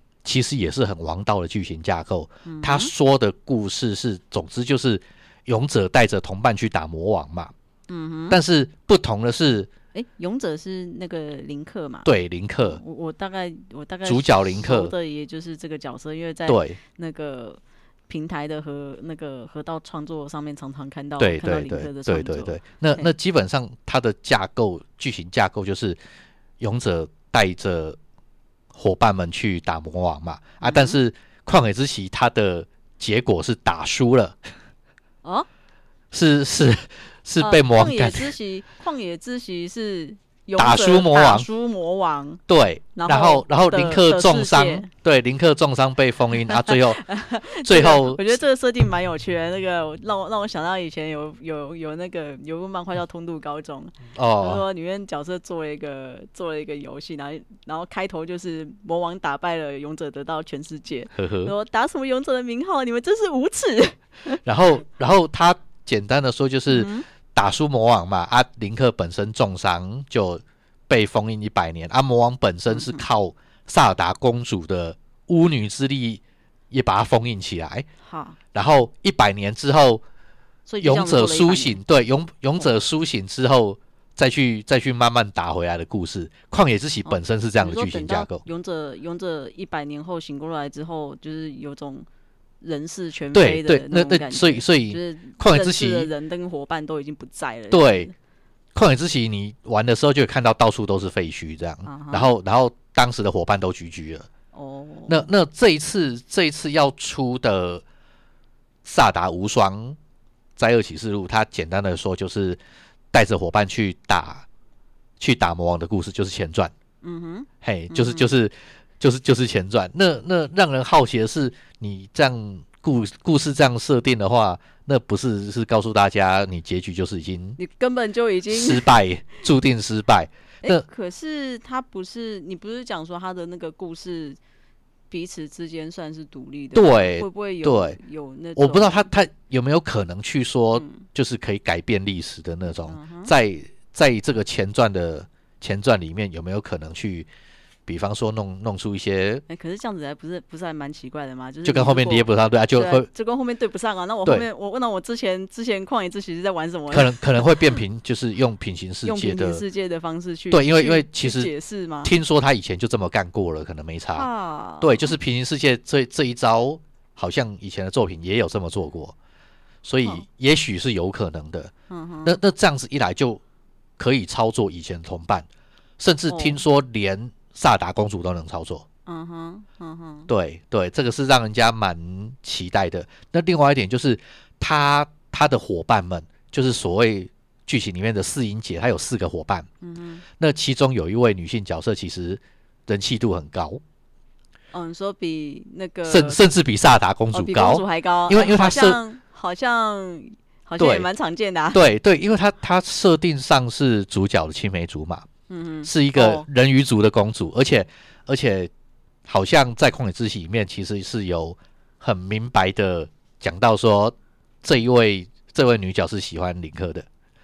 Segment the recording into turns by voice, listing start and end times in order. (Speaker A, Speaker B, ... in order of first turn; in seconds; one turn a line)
Speaker A: 0.2-7.5
Speaker B: 2.5-2.9
Speaker B: 7.9-8.4
Speaker A: 8.3-9.7
Speaker B: 9.9-23.1
Speaker A: 12.1-12.8
Speaker A: 14.1-14.9
Speaker A: 16.5-16.8
Speaker A: 21.2-26.0
Speaker A: 26.6-28.0
Speaker A: 28.7-34.5
Speaker B: 30.6-31.0
Speaker A: 36.1-38.4
Speaker B: 37.4-42.4
Speaker A: 40.6-41.5
Speaker A: 42.5-47.0
Speaker B: 43.0-44.9
Speaker B: 46.5-64.4
Speaker A: 47.6-48.4
Speaker A: 54.1-54.6
Speaker A: 61.1-61.5
Speaker A: 64.4-77.9
Speaker B: 66.7-67.1
Speaker B: 72.7-73.0
Speaker B: 78.0-78.4
Speaker A: 78.5-80.0
Speaker B: 80.7-81.8
Speaker A: 80.8-88.4
Speaker B: 87.1-92.1
Speaker B: 92.6-98.1
Speaker A: 93.3-96.1
Speaker A: 97.7-98.1
Speaker A: 98.8-104.3
Speaker B: 101.8-102.3
Speaker B: 104.5-105.3
Speaker A: 105.1-107.8
Speaker A: 108.8-110.0
Speaker A: 110.6-112.6
Speaker A: 113.1-114.5
Speaker A: 115.2-116.7
Speaker B: 117.0-118.3
Speaker A: 117.6-127.6
Speaker B: 127.6-128.9
Speaker A: 128.5-130.8
Speaker B: 130.6-134.4
Speaker B: 135.1-139.1
Speaker A: 136.7-138.0
Speaker A: 138.6-147.3
Speaker B: 140.8-141.1
Speaker B: 142.8-143.3
Speaker A: 147.9-149.4
Speaker B: 149.5-157.8
Speaker A: 151.7-153.1
Speaker A: 156.9-159.6
Speaker B: 159.0-162.1
Speaker A: 160.5-161.5
Speaker A: 162.1-164.3
Speaker B: 164.1-165.2
Speaker A: 164.8-169.2
Speaker A: 169.8-171.7
Speaker B: 171.9-172.4
Speaker A: 172.3-173.4
Speaker A: 174.0-175.5
Speaker A: 176.0-178.8
Speaker B: 176.3-176.6
Speaker B: 179.1-180.3
Speaker A: 180.3-189.7
Speaker B: 189.8-190.2
Speaker A: 190.4-193.8
Speaker B: 194.7-196.5
Speaker A: 196.1-199.0
Speaker B: 197.3-201.9
Speaker A: 200.8-201.1
Speaker A: 201.7-205.3
Speaker B: 205.5-206.5
Speaker A: 205.8-208.7
Speaker A: 209.3-217.1